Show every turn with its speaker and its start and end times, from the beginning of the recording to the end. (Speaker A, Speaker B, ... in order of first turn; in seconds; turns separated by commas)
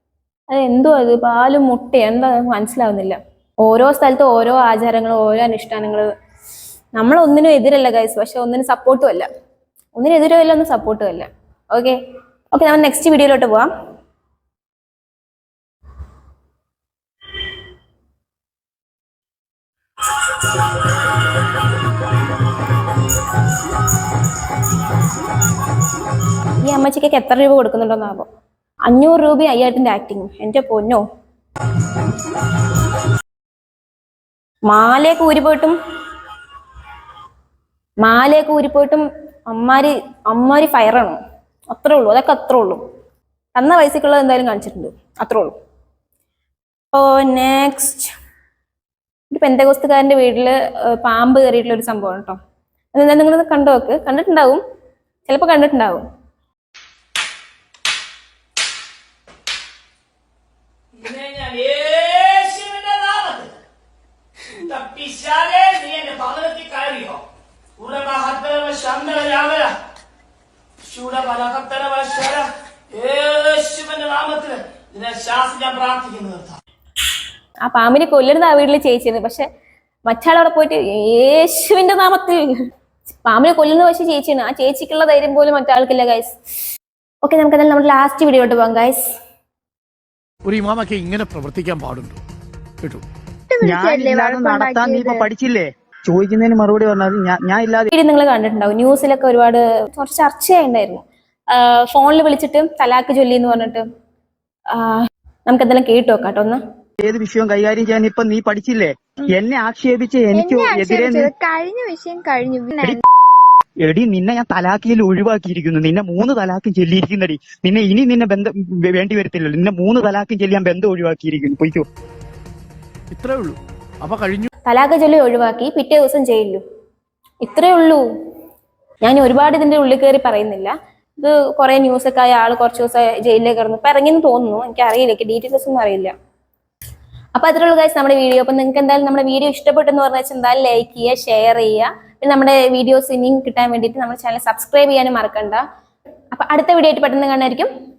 Speaker A: 0.5-6.1, Speaker A: 7.0-9.3, Speaker A: 9.9-12.0, Speaker A: 12.5-13.7, Speaker A: 26.6-28.2, Speaker A: 28.9-31.0, Speaker A: 34.6-35.7, Speaker A: 38.0-41.2, Speaker A: 41.7-42.8, Speaker A: 43.5-45.5, Speaker A: 46.9-48.1, Speaker A: 49.3-52.4, Speaker A: 52.9-54.6, Speaker A: 55.3-56.0, Speaker B: 61.0-63.6, Speaker B: 64.6-67.2, Speaker B: 67.8-69.7, Speaker B: 70.9-76.6, Speaker A: 77.6-79.4, Speaker A: 80.1-82.6, Speaker A: 83.2-86.3, Speaker A: 87.2-89.0, Speaker C: 90.4-92.2, Speaker D: 93.5-95.3, Speaker E: 93.6-97.9, Speaker A: 97.9-103.8, Speaker A: 104.7-106.6, Speaker E: 107.0-111.3, Speaker D: 110.3-113.0, Speaker E: 112.8-113.0, Speaker E: 113.8-121.8, Speaker C: 123.1-124.5, Speaker A: 124.7-126.6, Speaker A: 127.4-128.0, Speaker A: 129.0-136.1, Speaker A: 137.3-145.6, Speaker A: 146.3-147.7